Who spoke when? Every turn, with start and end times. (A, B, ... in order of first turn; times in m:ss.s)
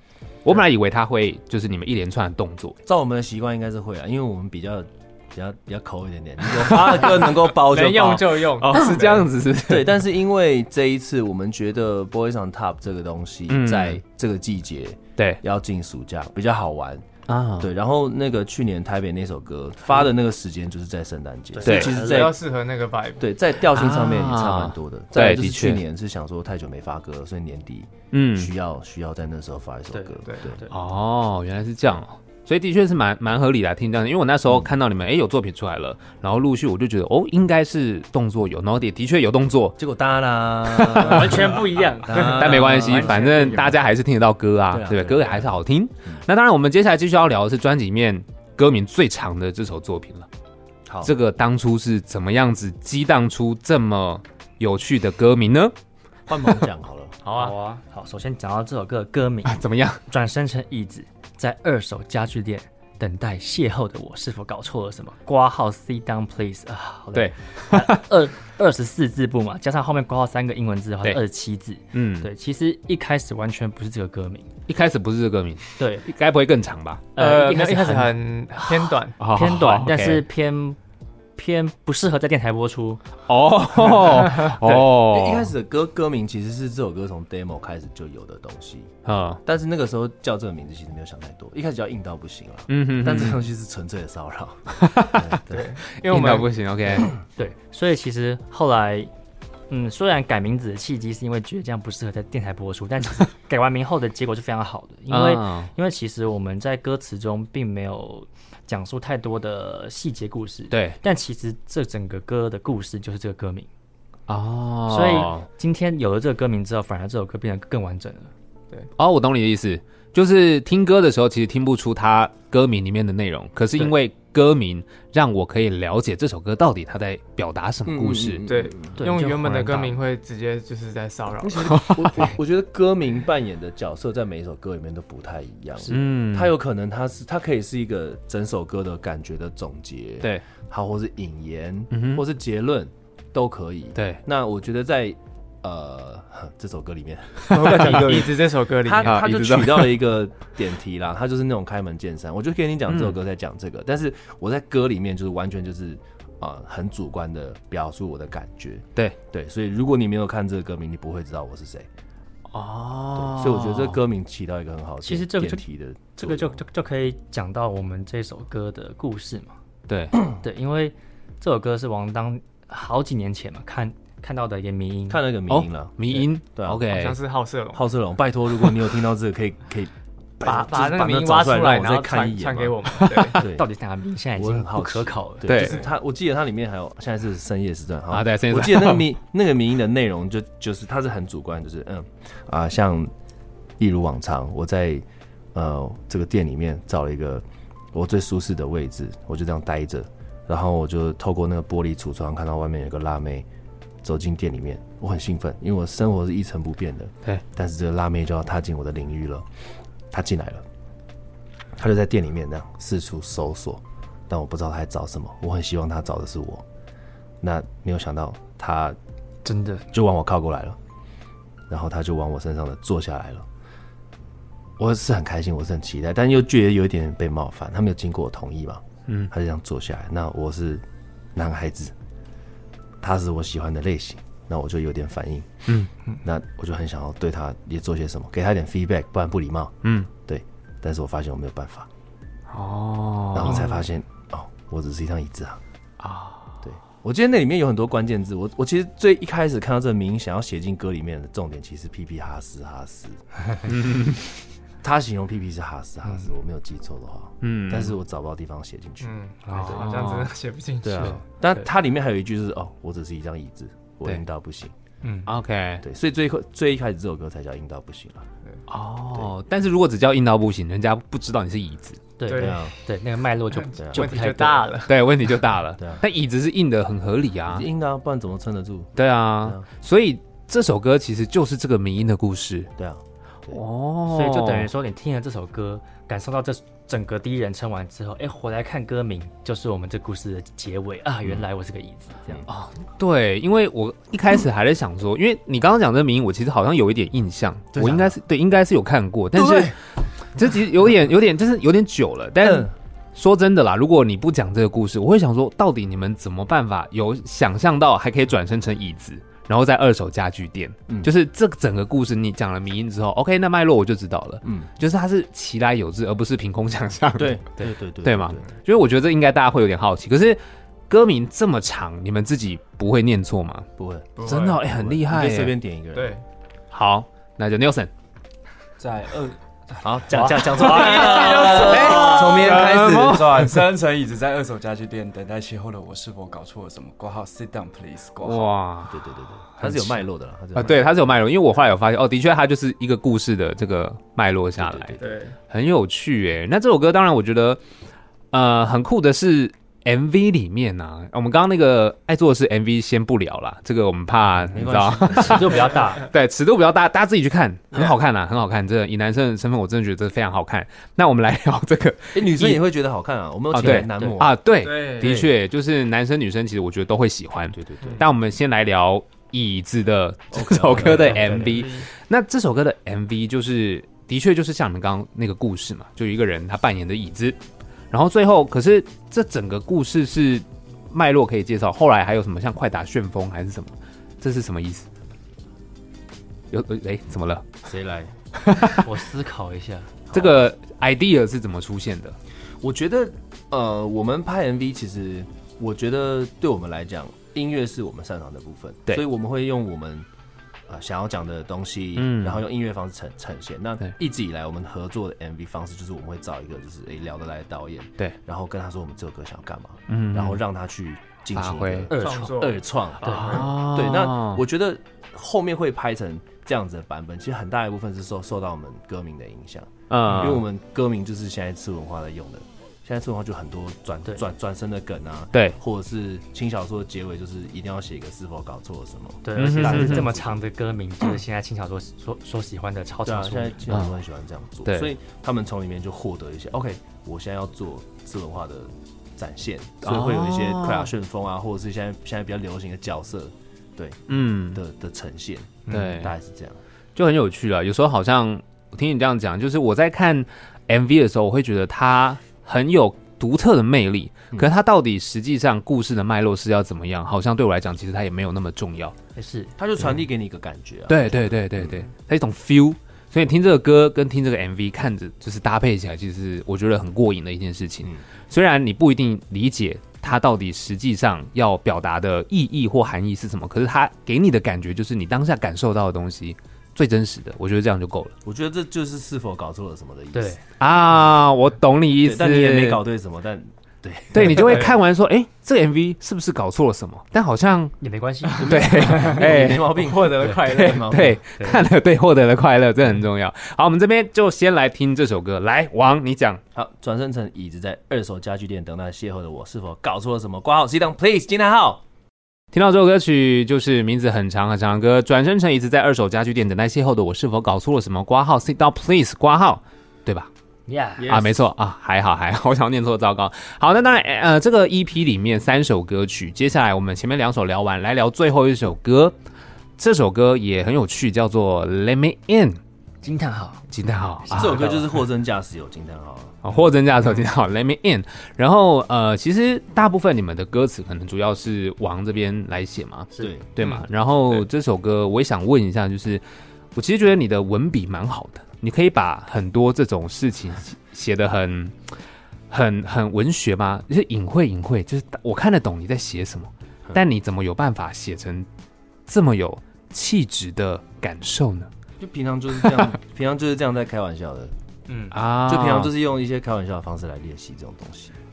0:00.4-0:02.8 A
0:02.8-0:09.1 B
0:06.6-0:07.4 A
0:07.5-0:09.2 C
0:08.6-0:10.0 A
0:09.6-0:17.0 B
0:13.5-0:14.0 A
0:17.3-0:17.7 A
0:17.6-0:22.4 B
0:21.6-0:22.3 D
0:21.6-0:22.0 A
0:21.7-0:23.3 C
0:23.2-0:30.6 B
0:23.7-0:25.8 A
0:28.1-0:28.5 A
0:29.9-0:30.8 D
0:30.7-0:39.8 A
0:39.8-0:43.3 B
0:40.7-0:41.6 A
0:40.9-0:43.8 D
0:42.2-0:50.3 A
0:44.7-0:46.2 B
0:50.9-0:51.1 B
0:51.0-0:55.7 A
0:56.3-0:57.1 B
0:57.2-0:57.6 C
0:57.3-1:14.5 D
0:59.4-1:00.0 A
1:07.1-1:08.0 A
1:11.9-1:12.3 A
1:14.7-1:17.1 A
1:15.8-1:16.1 D
1:17.1-1:20.8 D
1:17.2-1:19.2 C
1:19.2-1:20.2 A
1:21.4-1:23.0 D
1:23.3-1:25.5 A
1:24.6-1:28.9 B
1:29.0-1:29.4 A
1:29.4-1:35.6 B
1:32.7-1:33.4 A
1:34.8-1:35.4 A
1:35.5-1:36.5 C
1:36.0-1:37.1 A
1:37.4-1:39.1 D
1:39.7-1:53.7 D
1:45.1-1:45.7 A
1:50.7-1:51.0 A
1:54.3-1:55.5 A
1:54.9-1:58.3 D
1:59.0-2:08.4 A
2:07.8-2:09.0 B
2:08.4-2:11.8 C
2:08.9-2:10.0 D
2:11.4-2:41.9 B
2:11.7-2:12.2 A
2:15.9-2:16.5 A
2:21.9-2:22.2 A
2:24.0-2:24.2 A
2:27.5-2:28.3 A
2:27.5-2:29.3 C
2:28.9-2:30.0 A
2:32.9-2:33.2 A
2:42.5-2:44.0 A
2:43.2-2:46.6 B
2:45.0-2:45.6 D
2:46.2-2:49.6 D
2:49.9-2:50.2 A
2:50.3-2:55.2 D
2:55.1-2:56.9 B
2:55.5-2:57.2 A
2:56.9-2:57.8 C
2:57.7-3:02.8 B
3:00.4-3:03.4 C
3:03.0-3:03.3 A
3:03.4-3:05.7 D
3:03.4-3:03.6 B
3:04.4-3:13.1 B
3:05.4-3:05.8 A
3:08.1-3:09.1 A
3:13.8-3:23.4 B
3:24.0-3:29.5 B
3:30.1-3:30.6 B
3:31.8-3:36.6 B
3:37.4-3:39.0 B
3:39.4-3:39.8 D
3:39.9-3:40.8 B
3:41.7-3:43.4 B
3:44.8-3:50.8 B
3:51.3-3:51.9 B
3:53.0-3:55.5 B
3:56.2-3:59.7 B
3:59.8-4:00.1 A
4:00.2-4:01.9 B
4:02.5-4:03.8 A
4:03.3-4:05.6 B
4:06.0-4:06.5 A
4:06.6-4:13.2 B
4:13.6-4:14.3 A
4:14.8-4:19.1 B
4:17.4-4:18.0 A
4:19.0-4:21.2 C
4:19.5-4:19.9 D
4:19.5-4:20.3 A
4:20.8-4:24.7 B
4:25.0-4:25.3 D
4:25.3-4:25.8 A
4:25.8-4:28.2 B
4:28.7-4:32.0 A
4:32.2-4:34.8 D
4:32.3-4:32.8 C
4:32.3-4:32.7 B
4:33.5-4:35.0 C
4:33.8-4:34.1 B
4:34.9-4:37.6 A
4:37.5-4:39.6 B
4:39.0-4:42.7 A
4:42.8-4:43.6 B
4:43.5-4:44.7 A
4:44.1-4:52.4 D
4:52.5-4:59.8 A
4:57.7-4:58.2 B
4:59.3-4:59.8 B
5:00.3-5:23.7 A
5:02.4-5:02.7 B
5:14.4-5:14.7 B
5:17.2-5:18.4 B
5:23.8-5:26.1 B
5:24.2-5:24.6 C
5:24.2-5:25.5 A
5:25.9-5:26.2 C
5:26.7-5:27.9 A
5:28.8-5:38.5 E
5:29.8-5:33.5 B
5:30.1-5:32.0 D
5:30.6-5:33.6 A
5:38.2-5:39.0 A
5:38.9-5:40.9 B
5:39.6-5:45.0 A
5:44.6-5:45.1 B
5:45.0-5:45.4 C
5:45.5-5:47.6 A
5:48.3-6:02.6 A
5:54.5-5:55.6 B
5:55.1-5:56.1 D
6:02.1-6:04.4 B
6:03.5-6:17.4 A
6:03.6-6:04.2 D
6:04.6-6:05.1 C
6:05.0-6:05.3 B
6:07.5-6:08.0 B
6:10.3-6:11.5 B
6:11.0-6:11.6 D
6:17.9-6:24.8 A
6:26.5-6:27.5 A
6:27.6-6:28.1 B
6:28.4-6:28.8 A
6:28.8-6:30.0 D
6:30.1-6:30.5 B
6:30.1-6:32.2 A
6:32.6-6:40.1 B
6:40.7-7:10.4 B
6:42.0-6:42.4 A
6:49.9-6:50.4 A
6:51.3-6:51.9 A
6:51.9-6:52.5 D
6:51.9-6:53.5 C
6:53.0-6:53.4 D
6:53.0-6:54.4 A
6:59.9-7:00.4 A
7:09.2-7:13.6 D
7:09.3-7:10.1 A
7:13.0-7:26.6 B
7:19.8-7:20.9 A
7:24.1-7:24.6 A
7:25.7-7:26.1 A
7:26.9-7:39.0 A
7:39.2-7:39.5 D
7:39.6-7:41.8 B
7:40.9-7:58.1 A
7:58.2-8:00.4 B
8:00.1-8:00.4 D
8:00.6-8:02.8 A
8:02.0-8:04.7 B
8:04.1-8:07.7 A
8:07.8-8:09.0 D
8:08.3-8:09.8 A
8:08.4-8:11.1 B
8:09.6-8:11.0 C
8:10.4-8:16.4 A
8:11.4-8:11.6 D
8:16.5-8:21.8 B
8:22.5-8:30.3 A
8:30.7-8:31.2 D
8:31.0-8:31.4 C
8:31.0-8:39.1 A
8:39.8-8:42.6 A
8:43.0-8:43.7 D
8:43.7-8:44.6 A
8:44.2-8:44.9 D
8:44.3-8:46.4 B
8:46.4-8:56.2 A
8:53.1-8:53.7 D
8:53.2-8:53.4 B
8:56.7-9:02.0 A
9:02.5-9:08.5 A
9:09.1-9:11.7 A
9:12.0-9:14.5 B
9:14.9-9:15.2 D
9:15.1-9:15.9 A
9:15.5-9:18.1 B